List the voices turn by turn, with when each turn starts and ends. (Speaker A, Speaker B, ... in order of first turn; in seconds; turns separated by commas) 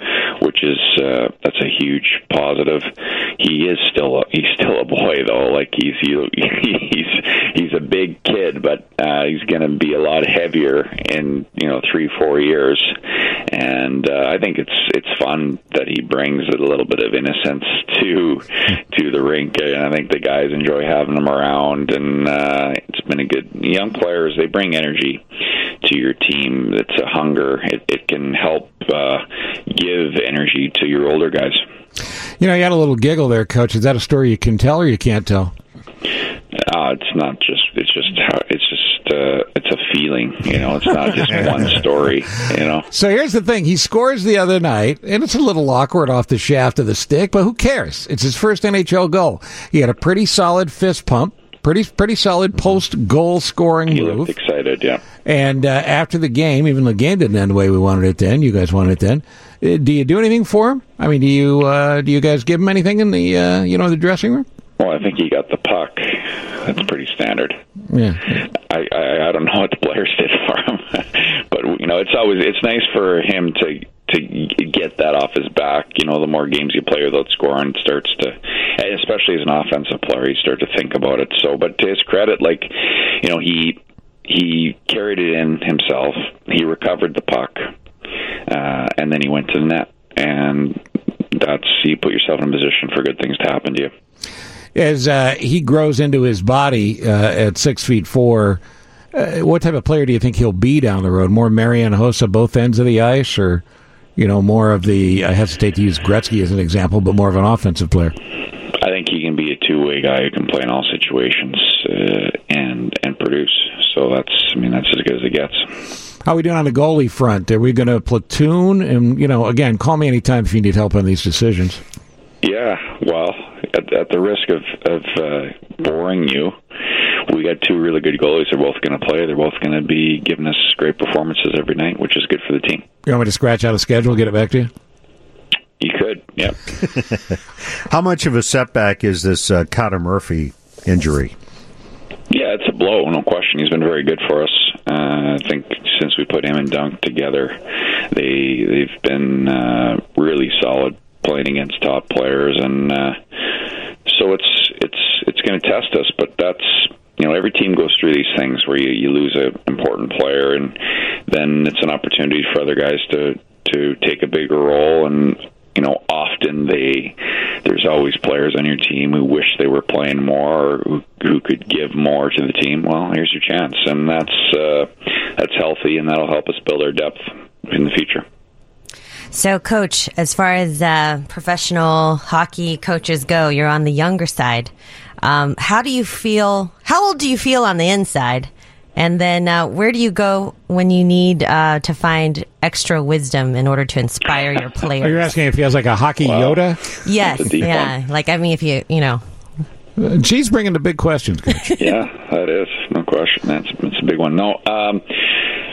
Speaker A: 0.4-12.9, Speaker A: 13.5-25.2, Speaker A: 25.8-31.6, Speaker B: 32.4-35.5, Speaker A: 36.6-42.9, Speaker B: 42.9-54.3, Speaker A: 53.9-55.0, Speaker B: 55.2-64.5, Speaker A: 64.8-67.6, Speaker B: 67.9-68.4, Speaker A: 68.7-87.6, Speaker A: 88.5-90.8, Speaker A: 91.3-93.9, Speaker B: 94.7-98.6, Speaker B: 99.1-103.6, Speaker B: 104.2-108.1, Speaker A: 108.8-115.7, Speaker B: 116.2-121.8, Speaker A: 122.4-126.5, Speaker A: 127.3-132.8, Speaker B: 133.1-134.7, Speaker A: 135.8-136.6, Speaker C: 137.0-137.3, Speaker C: 137.9-141.3, Speaker A: 142.3-147.6, Speaker A: 148.1-153.2, Speaker A: 154.1-160.8, Speaker A: 161.3-178.2, Speaker D: 179.3-195.3, Speaker B: 195.0-196.8, Speaker A: 196.2-197.9, Speaker D: 197.0-199.2, Speaker B: 200.0-201.7, Speaker A: 201.8-205.1